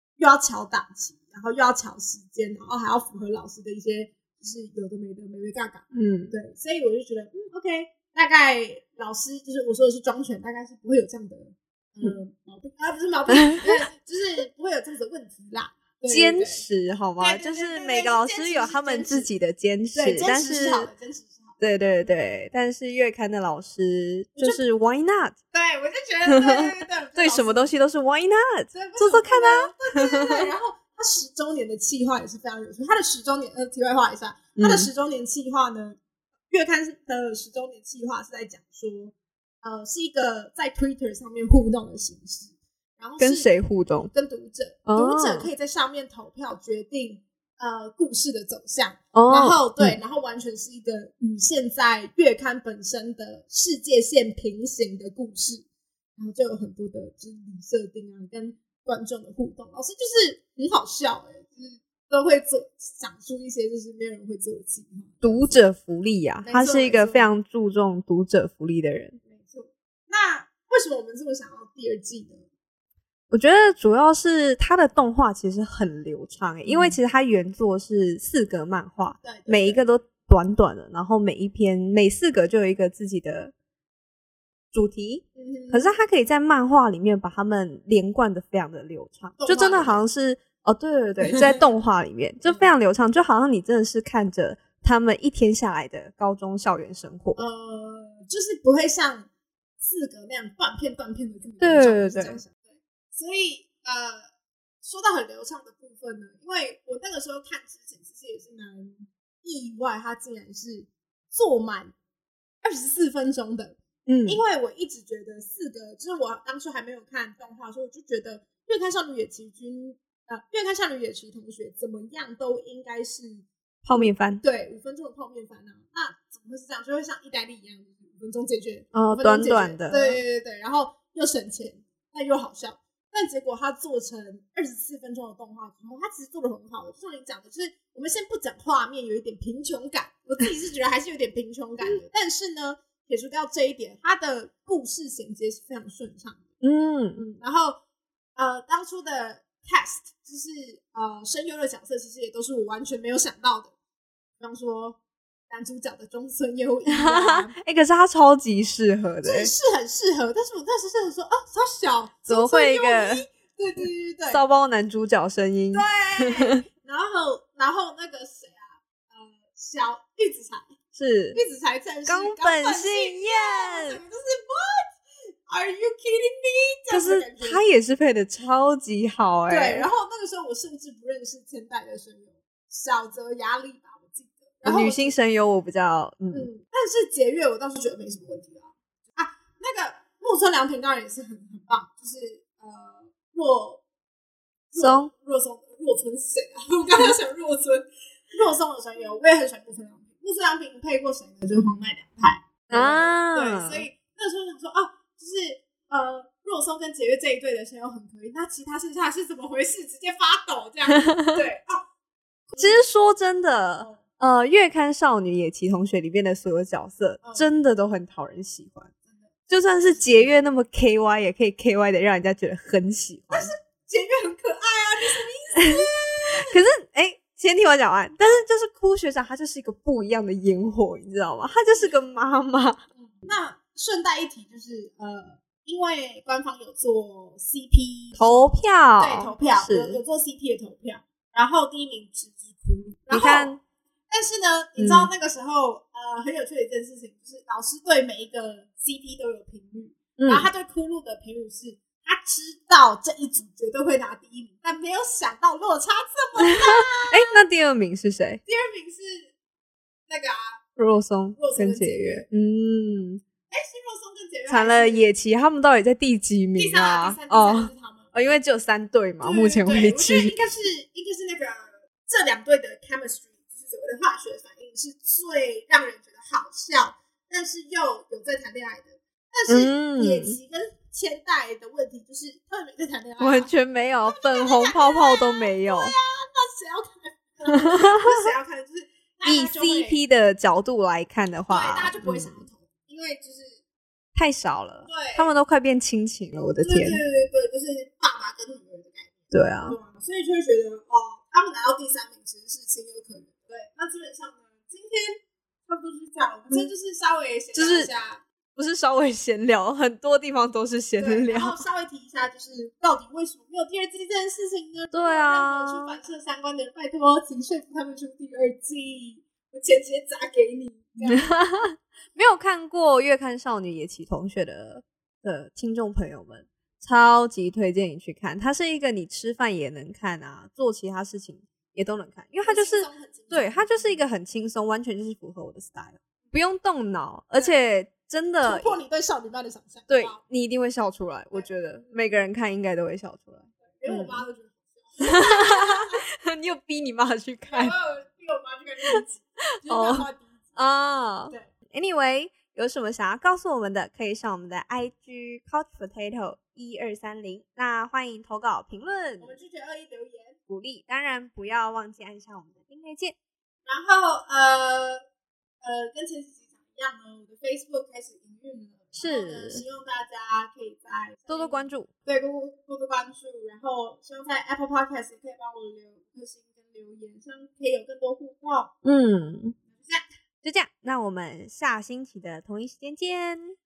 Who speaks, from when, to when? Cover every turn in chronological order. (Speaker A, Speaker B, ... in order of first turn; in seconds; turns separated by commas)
Speaker A: 0.2-16.6, Speaker B: 5.9-6.3, Speaker B: 13.3-13.8, Speaker B: 16.1-20.9, Speaker A: 17.2-19.3, Speaker A: 19.9-21.6, Speaker B: 21.6-25.4, Speaker A: 25.5-27.7, Speaker B: 26.2-30.4, Speaker A: 28.7-36.0, Speaker B: 34.6-34.9, Speaker A: 36.5-43.5, Speaker B: 43.2-44.1, Speaker A: 44.1-55.6, Speaker B: 44.9-45.5, Speaker B: 49.1-50.0, Speaker A: 56.2-65.6, Speaker B: 65.2-69.2, Speaker A: 66.4-67.4, Speaker A: 69.2-72.5, Speaker B: 73.3-83.5, Speaker A: 76.6-77.0, Speaker A: 79.2-79.8, Speaker B: 84.7-97.4, Speaker A: 85.3-85.9, Speaker A: 89.4-90.0, Speaker A: 91.2-91.6, Speaker A: 92.5-92.7, Speaker A: 97.3-99.3, Speaker A: 99.8-104.3, Speaker B: 101.6-102.4, Speaker A: 104.8-111.9, Speaker A: 112.6-146.5, Speaker B: 114.0-114.4, Speaker B: 123.8-124.4, Speaker B: 128.9-130.2, Speaker B: 146.6-147.2, Speaker A: 147.1-147.8, Speaker A: 148.3-153.7, Speaker A: 154.4-155.0, Speaker A: 155.5-157.5, Speaker B: 156.9-159.5, Speaker A: 159.2-164.4, Speaker B: 162.3-163.2, Speaker B: 164.3-166.6, Speaker A: 165.7-170.7, Speaker B: 170.9-171.4, Speaker A: 171.3-174.8, Speaker B: 172.1-174.0, Speaker A: 175.5-177.6, Speaker B: 176.9-179.9, Speaker A: 179.5-185.2, Speaker B: 184.6-186.5, Speaker A: 186.3-193.8, Speaker A: 194.7-211.8, Speaker B: 194.8-195.1, Speaker B: 202.7-203.9, Speaker A: 212.5-212.8, Speaker B: 212.6-218.9, Speaker A: 217.2-217.5, Speaker A: 219.1-220.4, Speaker B: 219.5-223.5, Speaker A: 223.3-226.6, Speaker B: 225.6-225.8, Speaker B: 226.5-232.8, Speaker A: 233.1-243.6, Speaker B: 238.2-240.0, Speaker B: 243.1-243.6, Speaker A: 244.1-257.4, Speaker B: 244.8-245.1, Speaker B: 250.2-250.5, Speaker B: 257.1-258.4, Speaker A: 258.4-259.3, Speaker A: 260.1-260.6, Speaker B: 260.8-263.2, Speaker A: 261.4-262.2, Speaker A: 263.5-265.1, Speaker B: 264.5-270.5, Speaker A: 266.5-268.1, Speaker A: 269.2-283.5, Speaker B: 279.5-280.4, Speaker B: 283.2-285.9, Speaker A: 284.0-290.0, Speaker B: 287.5-288.1, Speaker B: 289.2-292.4, Speaker A: 291.5-293.6, Speaker B: 294.1-297.0, Speaker A: 294.9-295.3, Speaker A: 296.6-308.2, Speaker B: 299.3-299.8, Speaker B: 307.5-307.9, Speaker B: 308.6-311.6, Speaker A: 311.0-321.4, Speaker B: 314.9-316.0, Speaker B: 321.1-338.7, Speaker A: 332.4-334.0, Speaker A: 338.4-340.2, Speaker B: 339.9-344.2, Speaker A: 341.3-342.1, Speaker A: 343.7-346.0, Speaker B: 345.0-347.8, Speaker A: 347.5-350.4, Speaker B: 349.6-359.3, Speaker A: 359.2-360.4, Speaker B: 360.5-363.1, Speaker A: 363.6-365.0, Speaker A: 365.6-378.7, Speaker B: 368.9-369.6, Speaker B: 371.3-371.9, Speaker B: 378.8-379.6, Speaker A: 379.7-380.0, Speaker B: 380.4-383.6